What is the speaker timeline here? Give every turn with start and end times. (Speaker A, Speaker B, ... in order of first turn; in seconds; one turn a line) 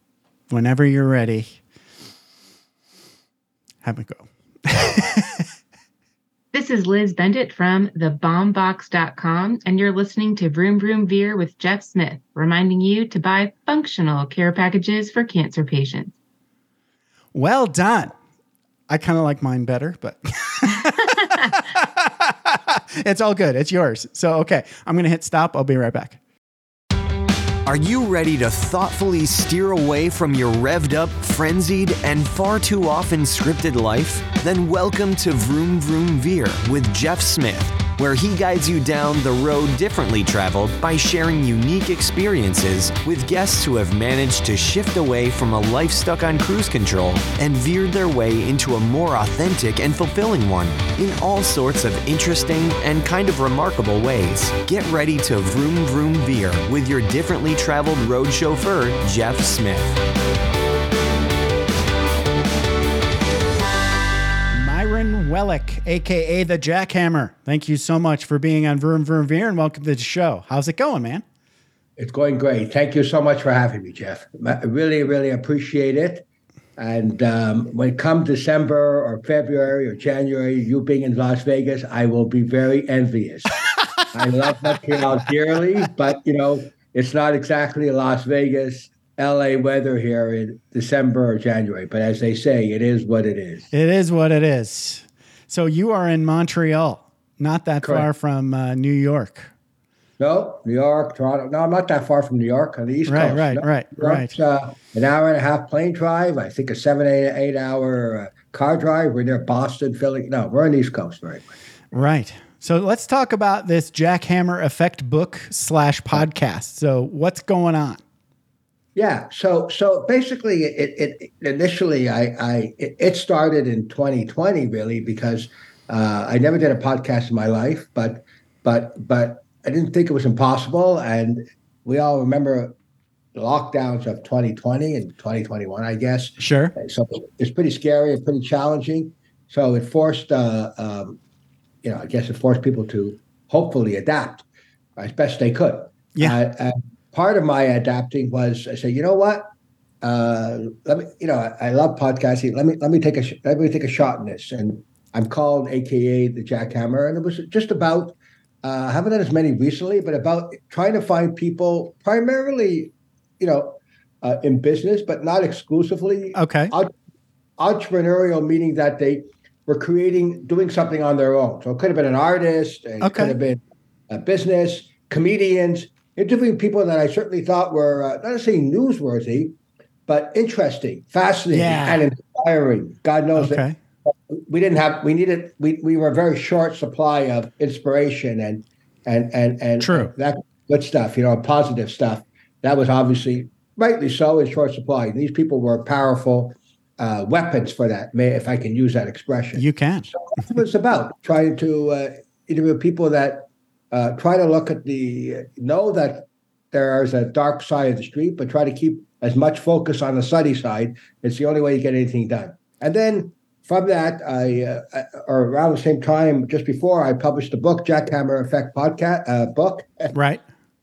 Speaker A: 0.5-1.6
Speaker A: 3.8-5.5
Speaker B: 6.5-16.1
Speaker A: 17.3-18.1
Speaker A: 18.9-26.2
Speaker C: 27.6-60.0
Speaker A: 64.5-71.2
Speaker D: 72.0-76.3
Speaker D: 76.8-83.5
Speaker D: 84.1-93.7
Speaker A: 93.7-99.5
Speaker D: 97.8-98.1
Speaker D: 100.2-111.5
Speaker A: 103.1-104.3
Speaker A: 111.9-118.0
Speaker D: 119.0-132.8
Speaker D: 133.3-141.2
Speaker A: 136.4-136.7
Speaker D: 141.8-144.4
Speaker D: 145.0-149.5
Speaker D: 150.0-166.9
Speaker A: 166.3-166.7
Speaker D: 167.6-179.6
Speaker A: 173.0-173.3
Speaker D: 180.1-220.2
Speaker A: 181.5-182.1
Speaker A: 183.4-183.8
Speaker A: 189.8-190.1
Speaker A: 199.6-200.1
Speaker A: 220.1-220.4